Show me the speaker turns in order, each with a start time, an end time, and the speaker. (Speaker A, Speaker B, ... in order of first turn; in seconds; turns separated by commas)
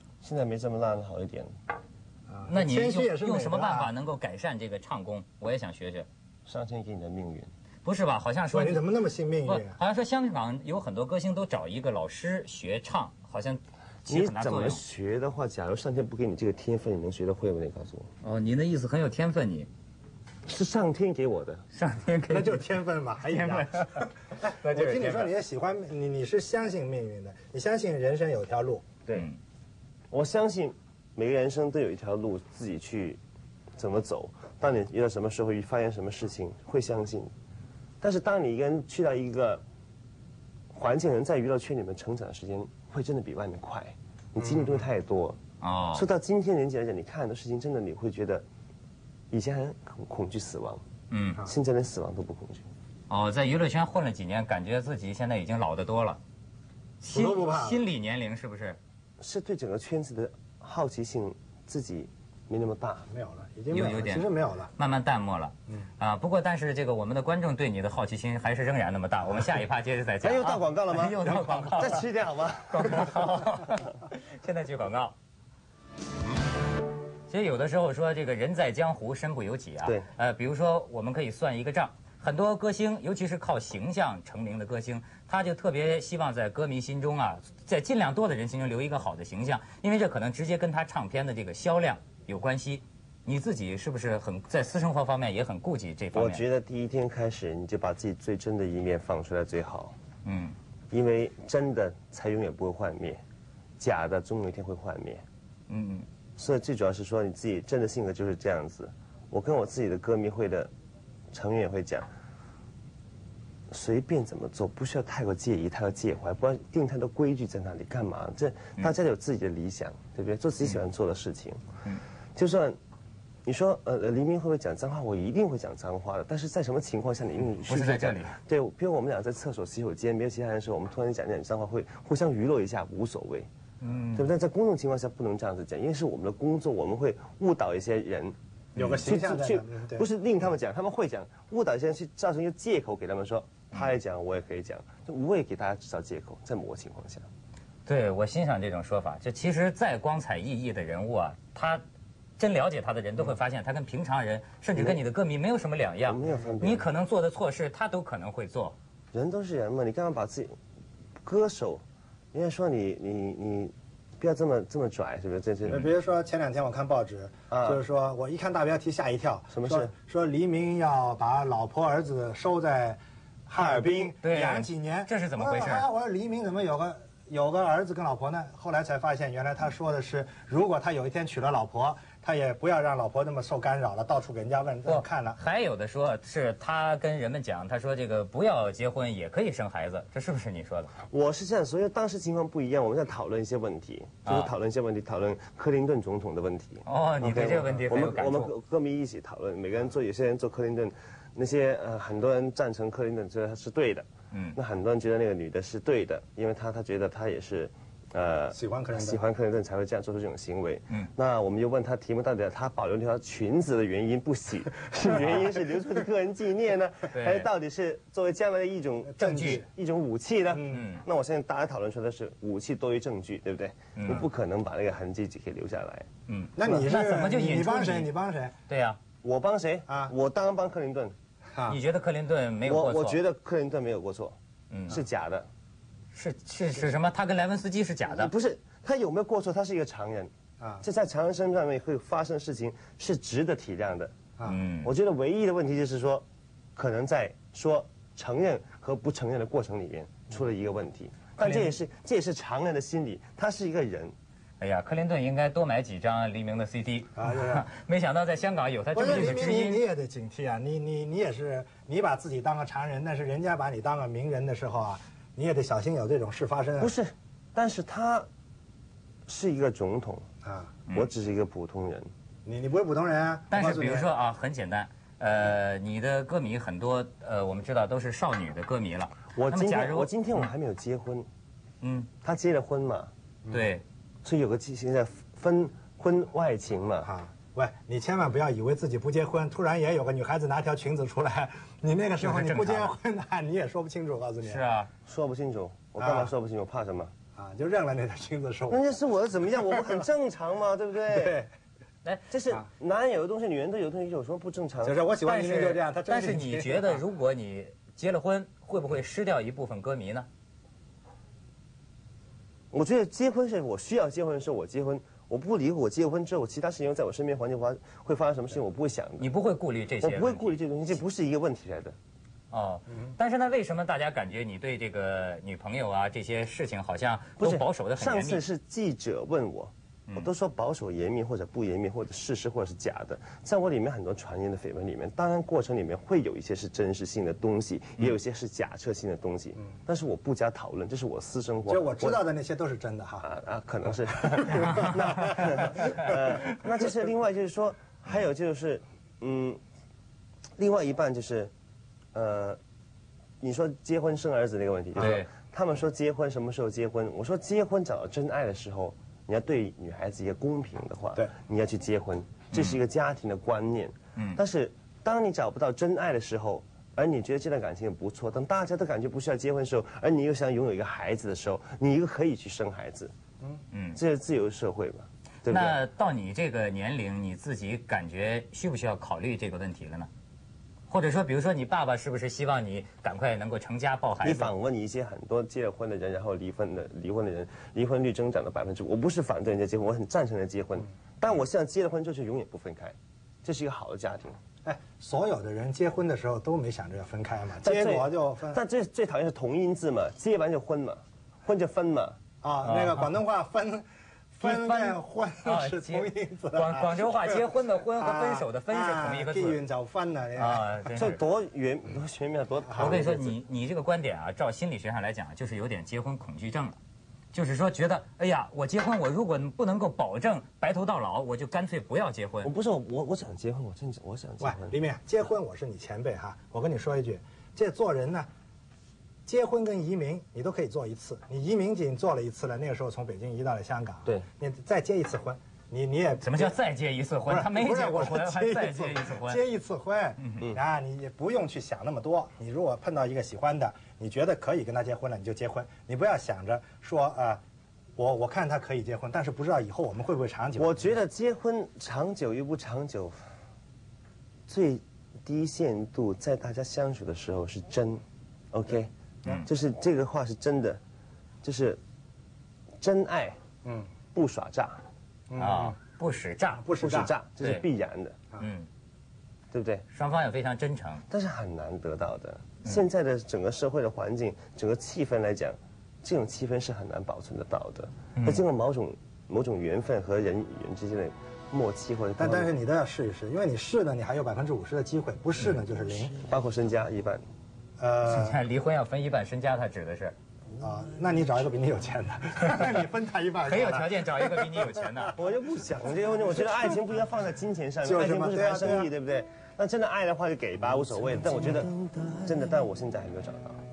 Speaker A: 0.2-1.5, Speaker B: 2.3-3.9, Speaker C: 2.5-6.1, Speaker A: 6.5-7.5, Speaker C: 7.8-8.8, Speaker B: 8.5-9.8, Speaker C: 9.4-14.8, Speaker A: 14.1-18.1, Speaker C: 18.2-19.7, Speaker A: 20.4-21.6, Speaker C: 21.7-22.6, Speaker B: 22.3-28.9, Speaker C: 23.2-25.3, Speaker C: 29.1-29.4, Speaker A: 30.1-33.2, Speaker A: 33.8-37.3, Speaker A: 38.0-39.6, Speaker A: 40.7-45.4, Speaker B: 44.4-44.7, Speaker C: 45.6-46.0, Speaker A: 45.9-48.4, Speaker A: 49.3-50.8, Speaker C: 51.1-51.4, Speaker A: 51.4-52.6, Speaker C: 53.1-56.2, Speaker C: 57.0-58.8, Speaker B: 57.1-57.8, Speaker A: 59.2-63.1, Speaker B: 63.1-64.7, Speaker C: 63.7-72.0, Speaker A: 70.2-73.2, Speaker B: 71.2-71.7, Speaker C: 72.7-75.1, Speaker C: 77.3-96.4, Speaker A: 96.1-99.9, Speaker C: 100.2-100.5, Speaker A: 100.9-103.2, Speaker A: 103.8-105.2, Speaker C: 105.7-106.0, Speaker A: 106.4-110.7, Speaker A: 111.3-112.1, Speaker A: 113.7-121.6, Speaker A: 122.3-122.8, Speaker A: 123.4-133.5, Speaker C: 127.7-128.4, Speaker C: 133.8-134.3, Speaker A: 134.1-147.2, Speaker B: 138.8-140.1, Speaker C: 138.8-139.0, Speaker C: 147.8-151.8, Speaker C: 152.4-158.7, Speaker A: 156.1-156.9, Speaker A: 159.1-160.5, Speaker A: 161.2-165.9, Speaker B: 165.7-185.4, Speaker A: 167.5-167.8, Speaker A: 169.5-169.9, Speaker A: 173.5-174.1, Speaker C: 174.2-175.9, Speaker C: 184.8-190.9, Speaker A: 191.1-226.1, Speaker C: 194.2-194.5, Speaker C: 196.8-198.5, Speaker C: 204.3-204.6, Speaker B: 208.5-209.2, Speaker C: 217.1-217.5, Speaker B: 219.1-219.7, Speaker C: 219.2-219.6, Speaker B: 220.5-220.8, Speaker C: 220.7-221.0, Speaker C: 223.9-224.2, Speaker C: 226.3-228.1, Speaker B: 226.6-228.5, Speaker C: 228.7-229.0, Speaker A: 229.2-231.1, Speaker B: 229.9-230.1, Speaker B: 231.5-231.8, Speaker C: 231.7-233.2, Speaker A: 232.7-234.3, Speaker C: 234.7-235.0, Speaker A: 234.9-235.5, Speaker C: 236.1-238.3, Speaker A: 238.1-240.3, Speaker A: 240.8-244.1, Speaker C: 244.4-244.9, Speaker A: 244.8-246.2, Speaker A: 246.8-254.1, Speaker C: 251.4-251.7, Speaker C: 254.6-259.8, Speaker B: 257.1-257.6, Speaker B: 258.9-266.9, Speaker A: 266.8-268.3, Speaker A: 269.3-270.2, Speaker B: 270.4-270.7, Speaker A: 270.9-272.1, Speaker B: 272.4-274.1, Speaker C: 273.5-280.1, Speaker A: 279.3-281.3, Speaker C: 281.8-282.1, Speaker A: 282.2-283.1, Speaker C: 283.5-283.8, Speaker A: 284.2-287.1, Speaker B: 287.0-294.6, Speaker C: 292.2-292.9, Speaker C: 294.4-294.9, Speaker A: 295.0-297.1, Speaker B: 296.0-296.3, Speaker B: 297.4-298.8, Speaker A: 298.7-301.4, Speaker B: 299.7-300.0, Speaker B: 301.1-301.5, Speaker A: 302.3-305.0, Speaker B: 304.8-307.0, Speaker C: 305.2-310.3, Speaker A: 312.7-319.3, Speaker C: 319.2-320.5, Speaker A: 320.0-321.9, Speaker C: 322.5-328.4, Speaker A: 327.4-342.2, Speaker B: 341.7-343.2, Speaker A: 343.2-349.6, Speaker B: 344.4-345.9, Speaker A: 350.6-351.5, Speaker A: 352.1-352.6, Speaker A: 353.4-373.1, Speaker C: 355.0-355.3, Speaker C: 362.5-362.8, Speaker C: 373.7-374.0, Speaker A: 373.9-375.8, Speaker C: 375.5-380.1, Speaker C: 380.9-384.5, Speaker A: 384.2-394.4, Speaker B: 394.6-398.6, Speaker A: 397.6-402.2, Speaker B: 402.4-410.8, Speaker C: 402.6-403.1, Speaker C: 404.4-409.6, Speaker C: 410.4-411.2, Speaker A: 410.9-413.4, Speaker B: 412.7-413.1, Speaker C: 412.8-416.8, Speaker C: 417.3-422.5, Speaker A: 422.4-424.8, Speaker B: 424.4-428.3, Speaker B: 429.2-436.5, Speaker C: 436.2-439.4, Speaker B: 437.3-447.4, Speaker B: 448.0-451.0, Speaker A: 450.6-453.2, Speaker A: 454.5-458.9, Speaker A: 459.4-460.8, Speaker A: 461.4-461.8, Speaker A: 462.8-463.4, Speaker B: 463.6-463.9, Speaker A: 464.1-464.8, Speaker B: 465.3-465.7, Speaker C: 465.4-466.7, Speaker B: 466.6-467.1, Speaker A: 466.8-468.2, Speaker C: 468.4-468.7, Speaker A: 469.5-469.8, Speaker C: 469.9-471.0, Speaker A: 471.1-482.5, Speaker C: 478.2-478.4, Speaker B: 482.2-486.2, Speaker A: 486.2-487.2, Speaker B: 487.8-488.4, Speaker C: 488.1-490.1, Speaker B: 490.6-495.1, Speaker C: 493.4-495.1, Speaker A: 495.1-503.6, Speaker B: 497.8-498.9, Speaker B: 501.2-501.7